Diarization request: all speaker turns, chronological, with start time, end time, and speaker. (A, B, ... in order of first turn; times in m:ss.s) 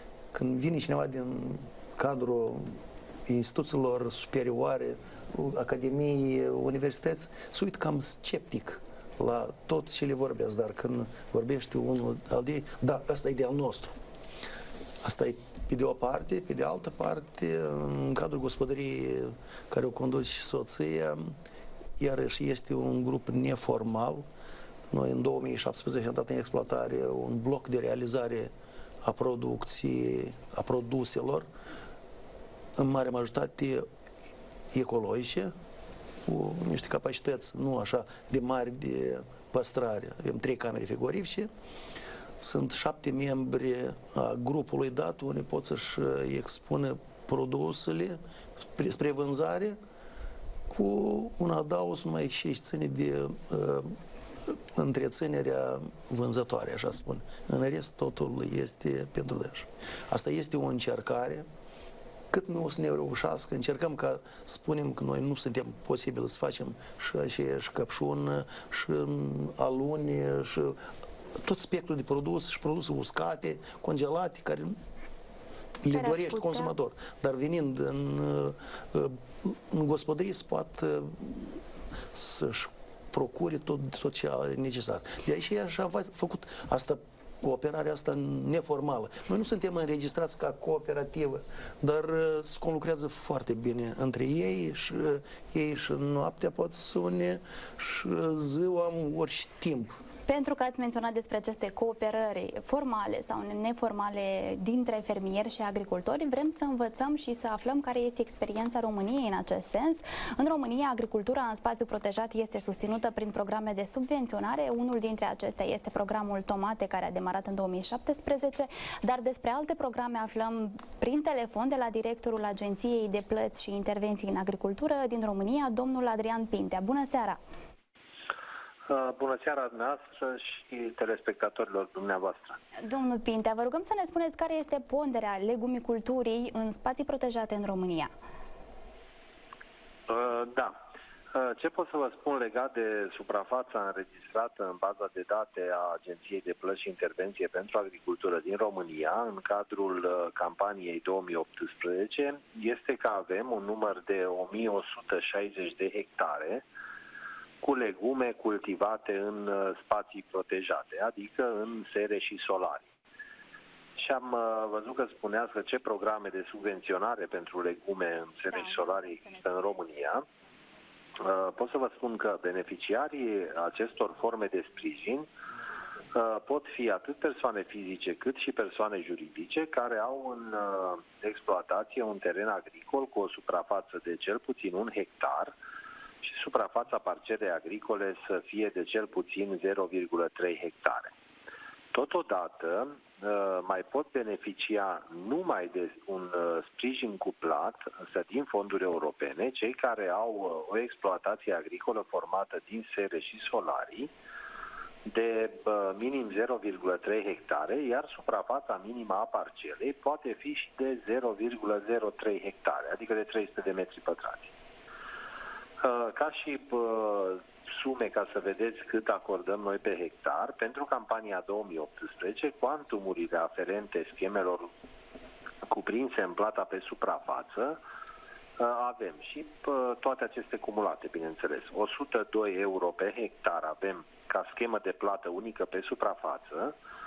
0:00.3-0:14.0 A
0:15.0-0:21.3 A
0:22.0-0:24.2 A
0:24.9-0:28.5 A
0:29.0-0:31.5 A
0:32.8-0:33.9 A
0:34.7-0:35.5 A
0:36.2-0:41.5 A
0:42.4-0:48.2 A
0:48.7-0:49.8 A
0:50.7-0:54.0 A
0:54.5-1:01.5 A
1:02.3-1:10.8 A
1:11.3-1:14.8 A
1:15.8-1:21.6 A
1:15.9-1:16.7 B
1:22.1-1:40.0 A
1:40.2-2:07.4 B
2:08.9-2:12.6 C
2:12.8-2:18.1 B
2:20.1-2:20.8 C
2:21.3-2:36.6 C
2:37.6-2:42.9 C
2:44.0-2:50.2 C
2:48.5-2:50.1 B
2:51.2-2:55.3 C
2:56.1-3:05.5 C
3:06.2-3:11.1 C
3:11.9-3:24.1 C
3:25.0-3:34.5 C
3:35.8-3:44.7 C
3:45.7-3:47.8 C
3:48.6-3:56.7 C